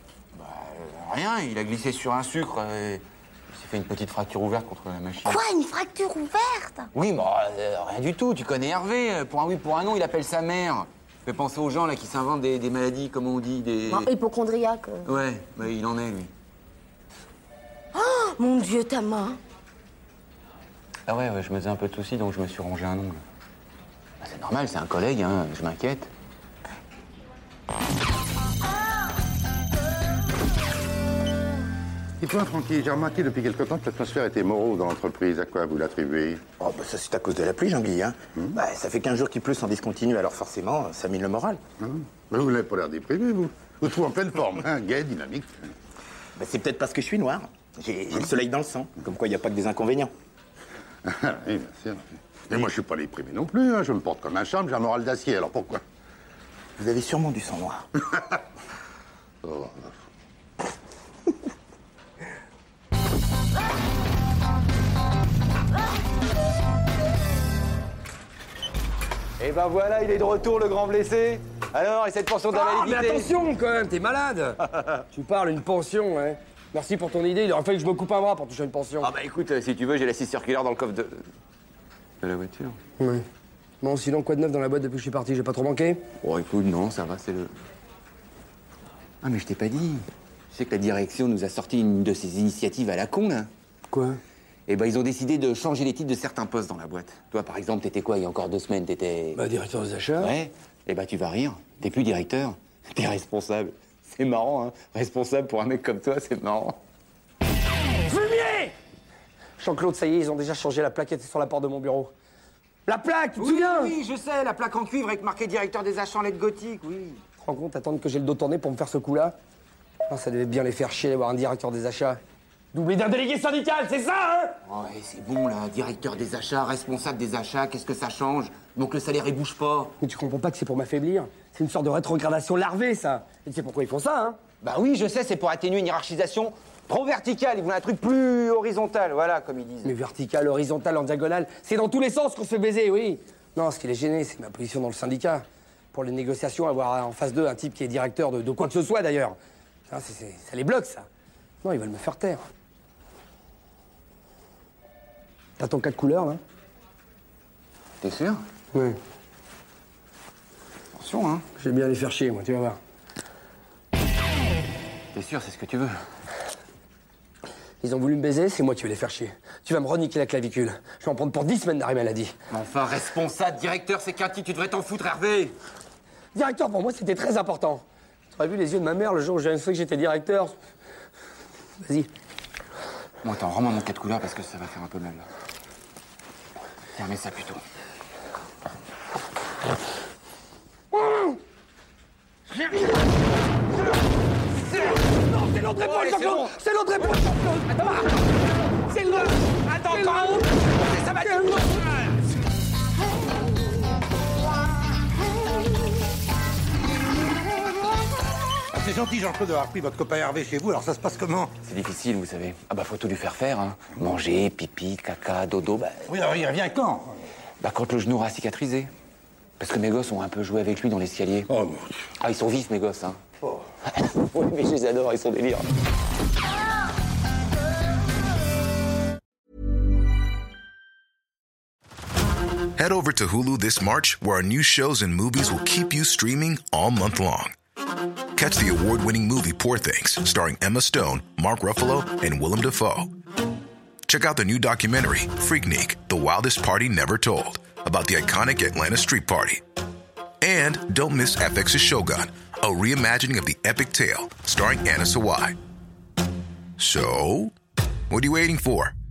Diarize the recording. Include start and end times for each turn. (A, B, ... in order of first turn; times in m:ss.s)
0:00.3-0:05.4 A
0:05.2-0:06.9 B
0:06.9-0:14.1 A
0:13.9-0:15.0 B
0:15.0-0:16.3 A
0:17.9-0:19.4 B
0:21.1-0:23.2 A
0:24.2-0:26.1 A
0:32.2-0:36.6 C
0:36.6-0:41.6 D
0:41.8-0:45.6 C
0:46.4-0:50.1 D
0:51.0-0:55.8 C
0:56.8-0:57.9 D
0:59.4-0:59.9 C
1:09.4-1:13.3 A
1:12.5-1:19.1 E
1:19.0-1:21.2 A
1:22.2-1:22.8 A
1:23.0-1:23.2 E
1:23.8-1:26.0 E
1:26.2-1:27.5 A
1:29.2-1:33.5 A
1:33.9-1:34.2 E
1:34.7-1:39.4 A
1:39.3-1:40.3 E
1:40.2-1:46.8 A
1:48.1-1:48.7 E
1:49.6-1:52.1 E
1:52.9-1:53.9 E
1:53.4-1:57.2 A
1:57.4-1:59.3 E
2:00.1-2:02.2 E
2:02.7-2:04.5 E
2:04.7-2:09.9 A
2:10.0-2:14.4 E
2:14.6-2:19.9 A
2:19.8-2:29.4 E
2:29.9-2:31.1 E
2:31.6-2:32.4 E
2:35.6-2:36.4 E
2:38.0-2:38.4 A
2:38.7-2:39.0 E
2:40.9-2:41.4 A
2:41.6-2:42.8 E
2:45.1-2:45.9 A
2:47.8-2:52.3 E
2:52.5-2:55.6 A
2:56.3-3:00.6 E
3:01.8-3:02.1 E
3:03.2-3:05.2 A
3:06.9-3:07.6 A
3:14.7-3:18.0 E
3:15.8-3:16.5 A
3:17.1-3:18.1 A
3:18.9-3:22.1 A
3:19.9-3:20.3 E
3:21.2-3:21.6 E
3:28.7-3:31.6 C
3:31.6-3:36.1 A
3:36.1-3:37.1 C
3:37.6-3:38.9 A
3:39.6-3:41.5 A
3:41.5-3:42.0 C
3:42.2-3:45.7 A
3:52.8-3:57.5 F
3:58.4-4:03.1 F
4:04.1-4:09.6 F
4:10.4-4:15.6 F
4:16.8-4:17.5 F
4:18.1-4:18.9 F